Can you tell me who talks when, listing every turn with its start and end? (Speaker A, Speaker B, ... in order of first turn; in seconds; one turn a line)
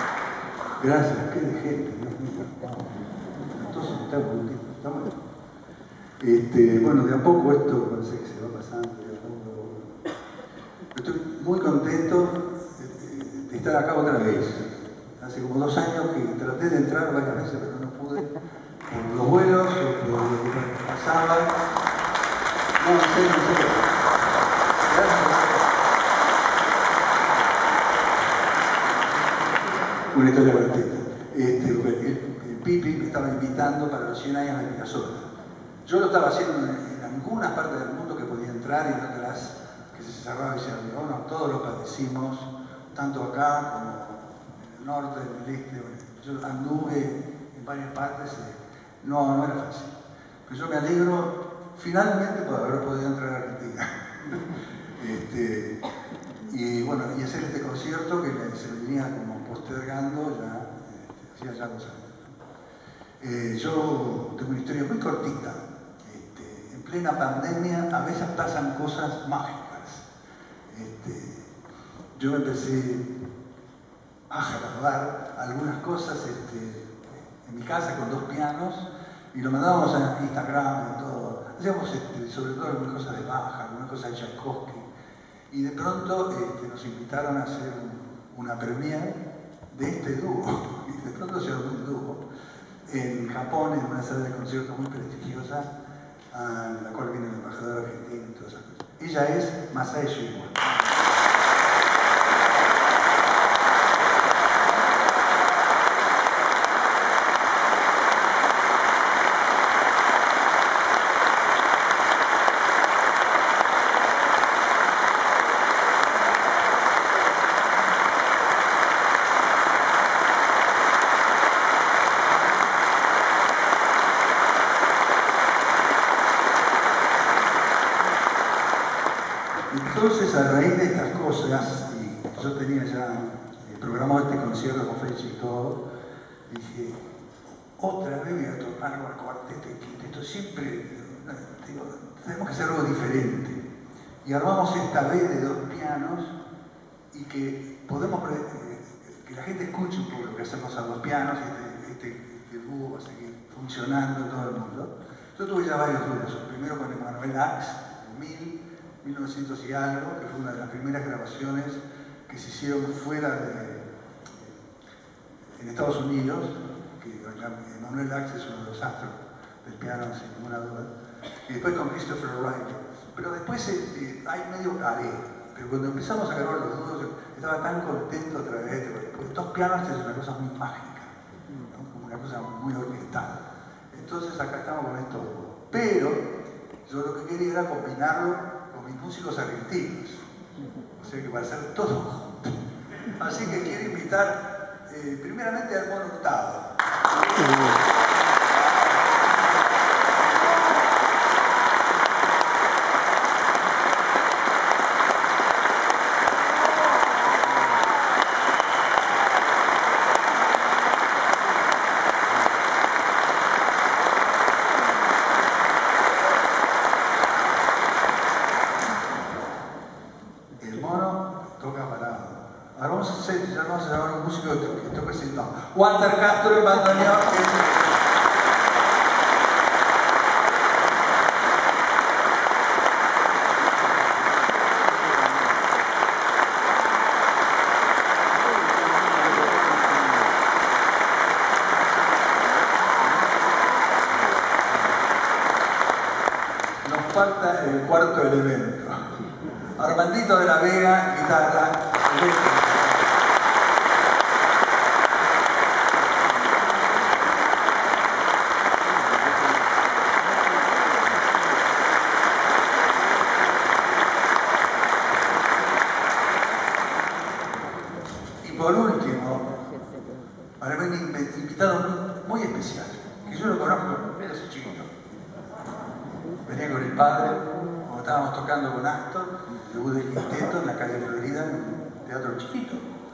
Speaker A: 0.8-2.9
Speaker A: 3.5-5.2
Speaker A: 6.2-10.0
Speaker A: 10.9-21.6
Speaker A: 22.8-24.1
Speaker A: 24.8-25.8
Speaker A: 30.1-35.3
Speaker A: 35.9-50.0
Speaker A: 50.5-55.8
Speaker A: 56.5-62.4
Speaker A: 63.2-70.1
Speaker A: 70.7-71.5
Speaker A: 72.2-73.1
Speaker A: 74.3-84.9
Speaker A: 85.5-89.2
Speaker A: 89.7-92.3
Speaker A: 92.8-95.7
Speaker A: 96.3-100.7
Speaker A: 129.7-135.8
Speaker A: 136.5-137.0
Speaker A: 137.8-143.6
Speaker A: 144.2-146.4
Speaker A: 147.1-164.6
Speaker A: 165.5-170.9
Speaker A: 171.4-186.3
Speaker A: 186.8-190.3
Speaker A: 191.0-192.6
Speaker A: 193.2-196.8
Speaker A: 220.6-227.9
Speaker A: 246.7-249.2
Speaker A: 249.8-253.0
Speaker A: 268.4-269.6
Speaker A: 270.6-274.9
Speaker A: 276.4-282.9